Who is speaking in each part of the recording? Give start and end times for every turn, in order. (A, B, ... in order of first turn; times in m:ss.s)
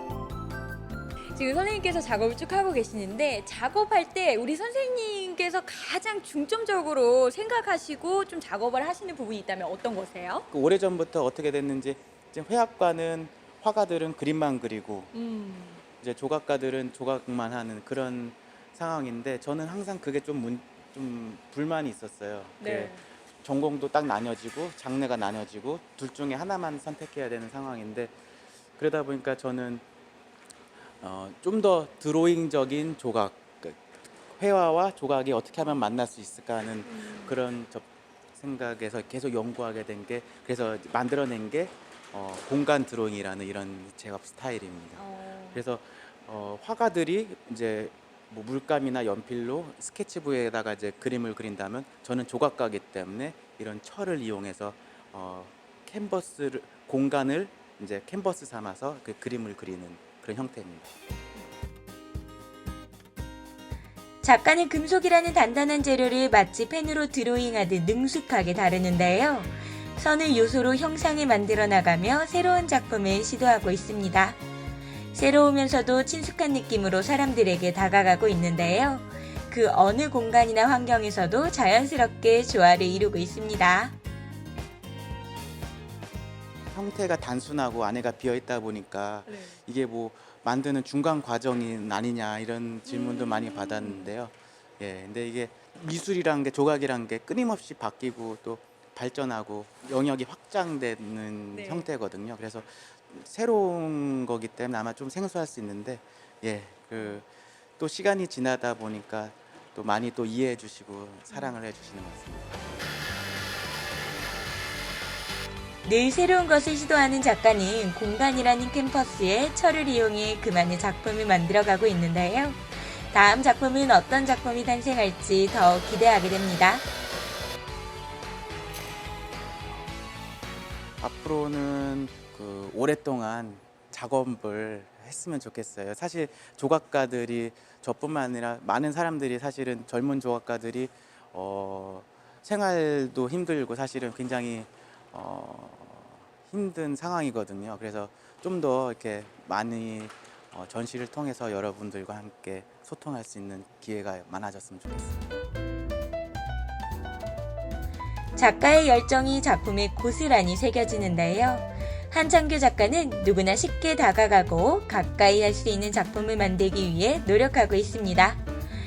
0:01.3-0:10.4 A
0:10.5-0:15.1 B
0:15.1-0:15.8 A
0:16.0-0:28.1 B
0:22.6-0:23.0 A
0:28.8-0:29.8 B
0:31.0-1:00.9 B
0:36.8-0:37.4 A
0:45.0-0:45.6 A
1:04.2-1:14.4 C
1:15.1-1:24.0 C
1:26.7-1:47.3 B
1:29.3-1:29.6 A
1:32.9-1:34.1 A
1:41.5-1:41.9 A
1:47.8-1:52.7 B
1:51.3-1:51.6 A
1:55.8-2:06.8 C
2:11.0-2:35.4 B
2:38.4-2:48.4 C